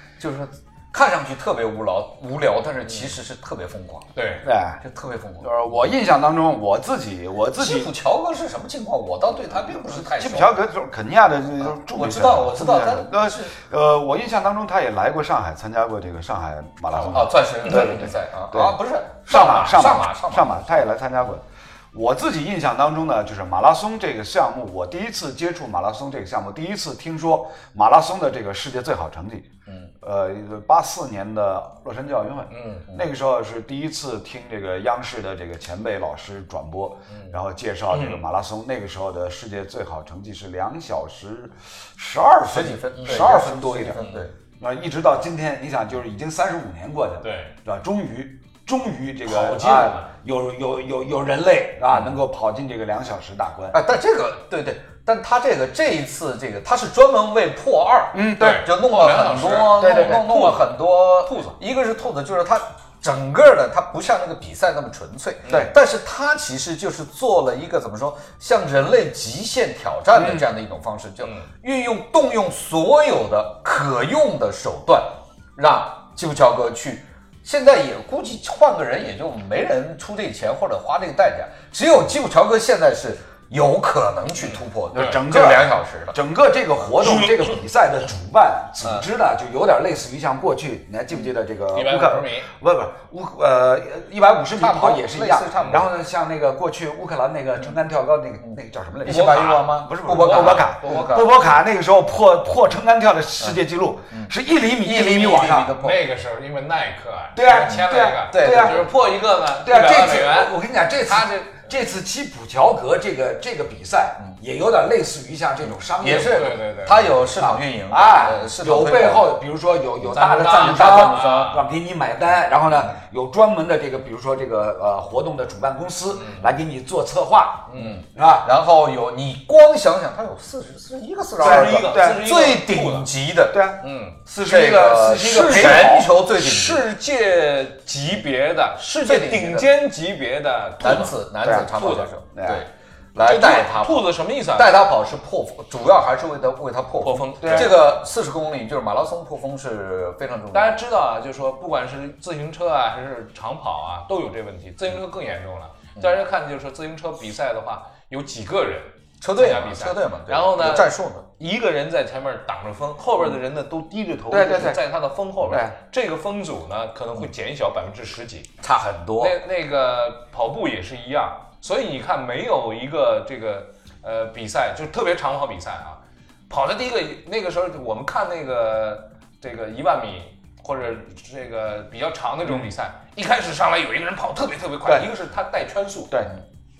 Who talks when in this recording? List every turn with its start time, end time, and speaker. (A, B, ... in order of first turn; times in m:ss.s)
0:00.2-0:04.1 A
0:02.9-0:03.1 B
0:04.1-0:04.5 B
0:04.4-0:04.8 C
0:04.8-0:05.8 A
0:05.4-0:07.9 C
0:07.6-0:10.6 A
0:09.6-0:29.5 C
0:11.6-0:13.5 A
0:16.9-0:17.2 B
0:16.9-0:20.9 A
0:30.0-0:53.8 C
0:32.5-0:32.9 B
0:37.1-0:37.4 B
0:37.9-0:38.2 B
0:42.5-0:44.3 A
0:43.0-0:43.3 B
0:44.0-0:44.3 B
0:47.2-0:47.5 B
0:49.2-0:50.1 B
0:53.7-1:26.2 A
0:58.1-0:58.6 C
0:58.4-1:00.7 B
0:59.8-1:00.5 C
1:01.2-1:01.6 B
1:05.4-1:05.7 B
1:10.1-1:10.5 C
1:11.2-1:11.5 B
1:24.4-1:25.2 B
1:24.9-1:45.8 C
1:31.7-1:32.5 B
1:34.6-1:35.9 A
1:35.5-1:35.9 B
1:39.0-1:41.3 A
1:39.0-1:41.3 B
1:44.1-1:46.0 A
1:45.8-1:51.7 B
1:47.3-1:56.5 C
1:48.2-1:48.9 A
1:56.0-1:59.4 A
1:56.0-1:57.4 B
1:57.4-2:08.5 C
2:00.1-2:01.6 B
2:00.4-2:01.6 A
2:06.1-2:06.5 B
2:07.7-2:08.0 B
2:07.8-2:13.7 A
2:11.4-2:13.1 B
2:11.4-2:12.2 C
2:13.5-2:16.1 C
2:13.8-2:14.2 B
2:14.4-2:16.9 A
2:15.2-2:22.1 B
2:19.0-2:19.7 A
2:20.8-2:30.8 A
2:21.4-2:21.8 C
2:22.3-2:22.6 C
2:23.2-2:24.8 B
2:27.0-2:27.8 B
2:27.4-2:27.7 C
2:30.5-2:48.5 B
2:39.2-2:41.2 A
2:44.3-2:44.8 C
2:45.4-2:45.7 C
2:48.6-2:49.4 A
2:49.2-3:06.3 B